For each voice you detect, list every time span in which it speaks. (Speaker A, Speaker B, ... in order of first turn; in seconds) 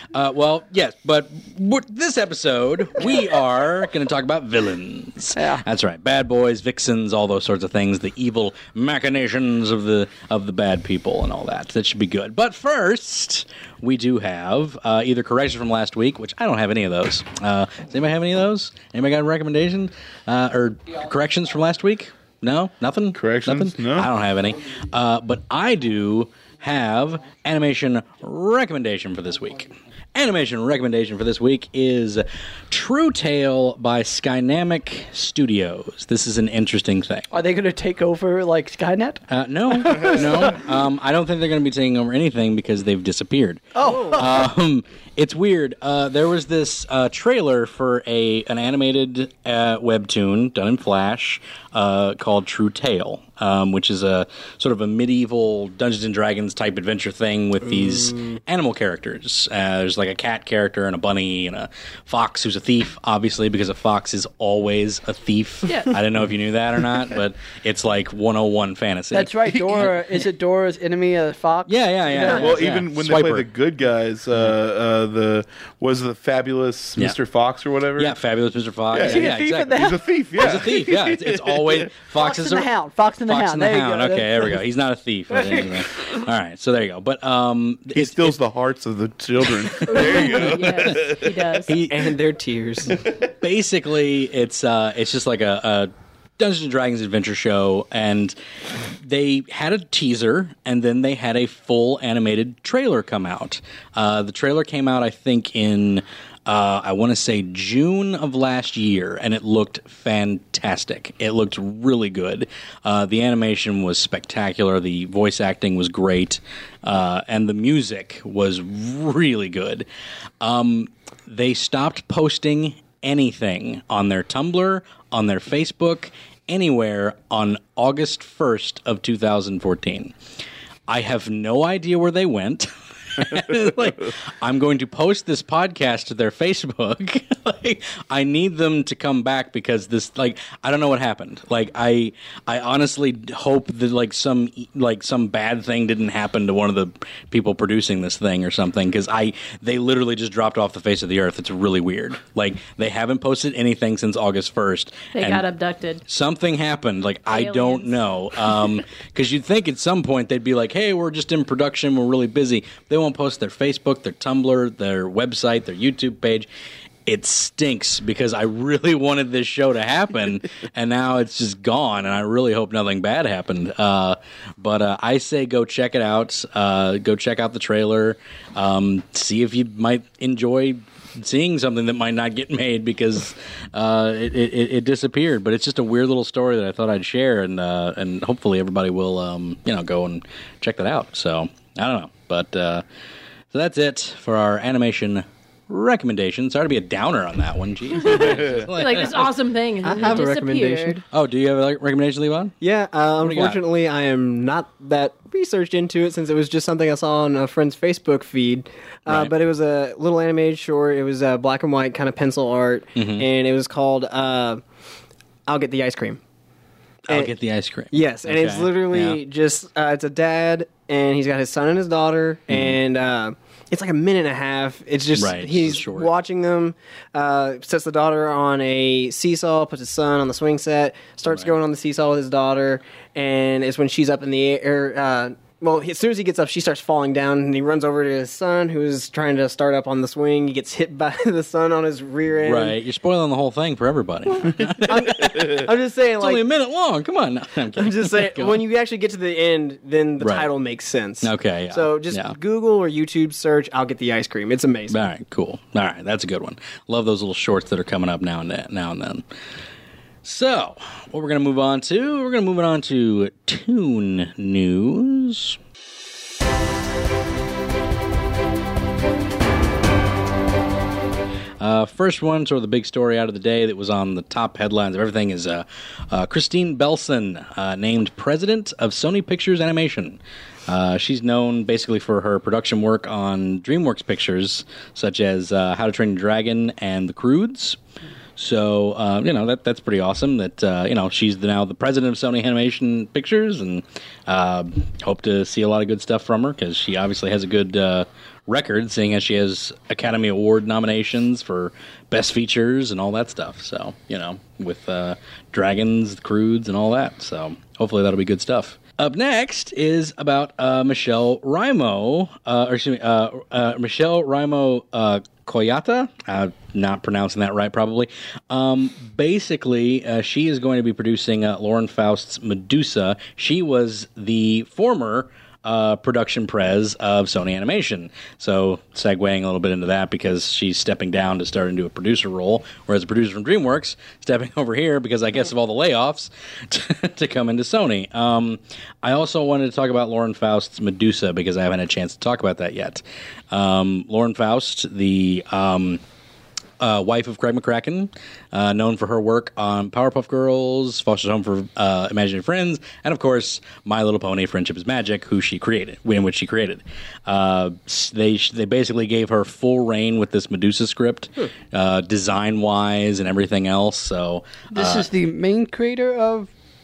Speaker A: 0.1-37.3, 39.3-69.9, 71.7-73.5, 78.0-82.7, 83.3-88.4, 89.7-92.1, 93.2-98.3, 99.0-119.9, 120.4-130.1, 130.9-155.5, 156.1-166.5, 167.1-192.8, 193.5-199.2, 201.1-202.6, 203.2-203.6, 209.1-209.3, 213.0-213.3, 217.1-219.2, 222.5-222.8, 225.2-226.1, 231.3-231.6, 242.4-248.6, 250.2-250.5, 251.2-252.4, 254.9-259.2, 260.2-265.6, 271.6-287.8, 288.4-346.0, 346.8-365.1
Speaker B: 5.3-5.6, 37.3-40.5, 43.8-44.2, 69.1-72.4, 79.0-80.0, 82.2-84.6, 85.3-85.8, 364.7-366.5
Speaker C: 23.1-24.1, 72.3-78.1, 78.9-81.9, 87.9-91.5
Speaker D: 43.8-44.3, 91.8-93.0, 199.8-201.0, 202.6-214.6, 215.5-216.2, 217.9-242.8, 244.5-246.4, 247.8-255.1
Speaker E: 65.7-65.9, 89.9-91.8, 155.1-156.0, 157.3-158.0, 198.0-201.0